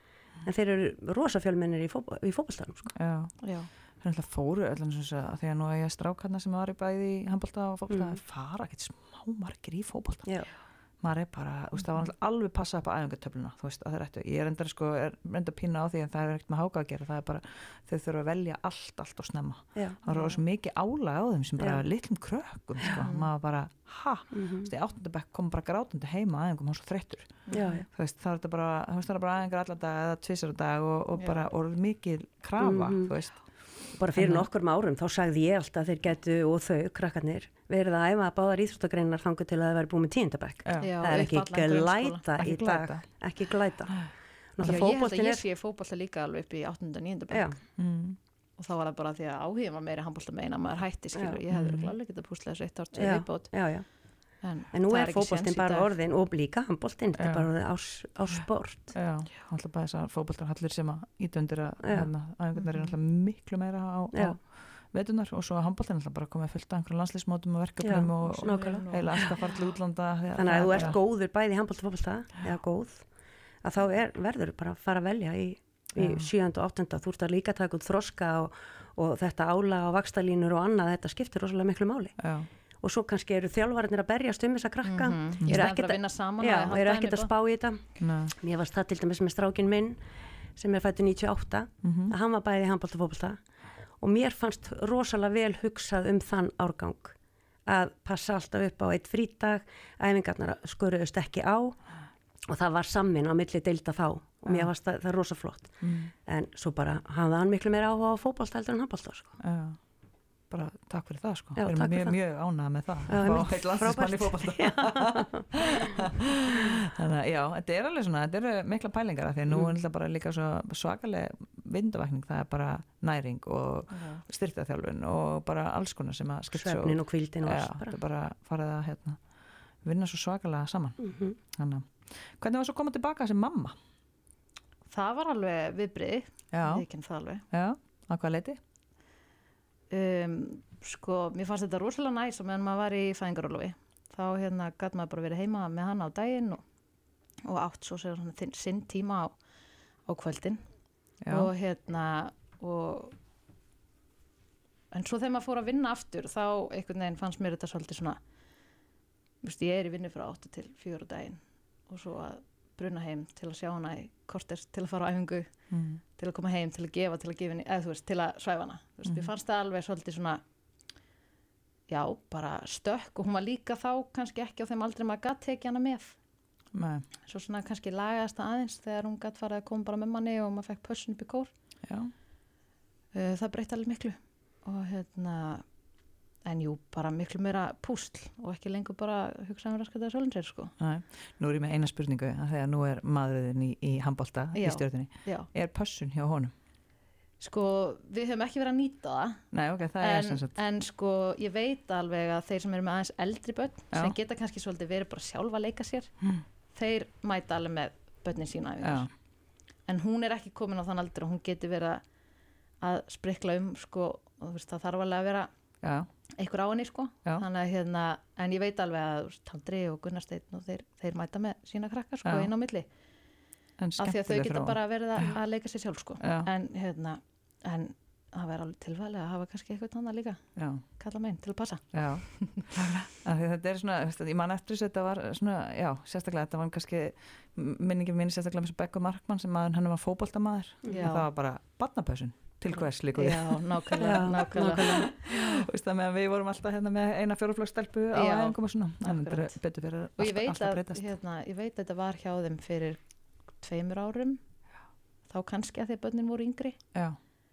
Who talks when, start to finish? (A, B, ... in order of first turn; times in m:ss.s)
0:00.4-0:02.9 A
0:03.0-0:03.4 B
0:03.4-0:03.7 C
0:04.0-0:10.3 B
0:07.9-0:08.2 A
0:10.2-0:10.5 A
0:11.0-0:33.4 B
0:20.1-0:20.4 C
0:22.9-0:23.3 C
0:24.3-0:24.7 A
0:27.5-0:27.8 C
0:27.5-0:27.8 A
0:31.2-0:31.4 C
0:32.6-0:33.1 A
0:34.0-0:45.4 A
0:34.1-0:34.5 B
0:40.6-0:40.9 B
0:40.8-0:42.2 C
0:42.4-0:43.0 B
0:44.6-0:47.5 C
0:47.3-0:47.6 A
0:47.8-0:48.2 B
0:48.6-0:53.5 C
0:51.1-0:51.4 A
0:51.5-0:51.9 B
0:52.9-0:53.8 A
0:54.4-0:55.9 C
0:54.7-0:59.0 A
0:57.2-0:57.5 B
0:58.9-1:11.0 B
1:01.8-1:02.1 A
1:04.1-1:04.4 A
1:07.8-1:09.4 A
1:08.2-1:09.3 C
1:10.3-1:13.0 A
1:13.6-1:22.2 A
1:16.0-1:16.3 B
1:22.2-1:22.5 B
1:22.8-1:30.0 A
1:24.8-1:27.3 C
1:25.4-1:25.7 B
1:28.0-1:28.3 B
1:30.6-1:33.4 A
1:31.8-1:32.1 B
1:34.0-1:37.1 A
1:37.7-1:41.8 A
1:42.5-1:49.4 A
1:45.8-1:46.1 B
1:49.4-1:49.8 B
1:50.5-2:09.2 B
1:51.6-1:52.2 A
1:53.1-1:56.0 A
2:03.9-2:04.2 C
2:06.5-2:08.0 A
2:09.8-2:13.7 B
2:11.0-2:11.4 A
2:14.9-2:17.4 C
2:16.5-2:16.8 B
2:17.5-2:18.6 B
2:19.9-2:26.6 C
2:27.4-2:29.4 C
2:30.1-2:30.6 C
2:31.2-2:31.5 B
2:31.3-2:33.2 C
2:34.9-2:38.2 C
2:39.4-2:45.5 C
2:45.7-2:46.0 B
2:46.2-2:50.4 C
2:51.9-2:56.2 C
2:56.7-2:57.0 B
2:57.2-3:01.5 C
3:01.8-3:02.1 B
3:03.1-3:05.6 C
3:06.4-3:10.7 C
3:10.8-3:16.5 B
3:14.5-3:15.5 C
3:17.4-3:19.4 C
3:19.5-3:20.5 B
3:20.0-3:26.1 C
3:26.7-3:29.1 C
3:28.8-3:29.1 B
3:29.9-3:32.0 C
3:32.8-3:35.5 C
3:35.8-3:36.1 B
3:36.3-3:42.9 C
3:42.2-3:42.5 B
3:43.8-3:45.3 B
3:44.0-3:50.4 C
3:46.2-3:46.5 B
3:50.6-3:50.8 B
3:51.0-3:52.7 C
3:51.9-4:11.1 B
4:00.9-4:01.3 C
4:03.1-4:05.1 C
4:04.0-4:05.1 A
4:08.1-4:09.6 C
4:10.2-4:13.0 C
4:13.6-4:14.4 C
4:15.3-4:16.8 C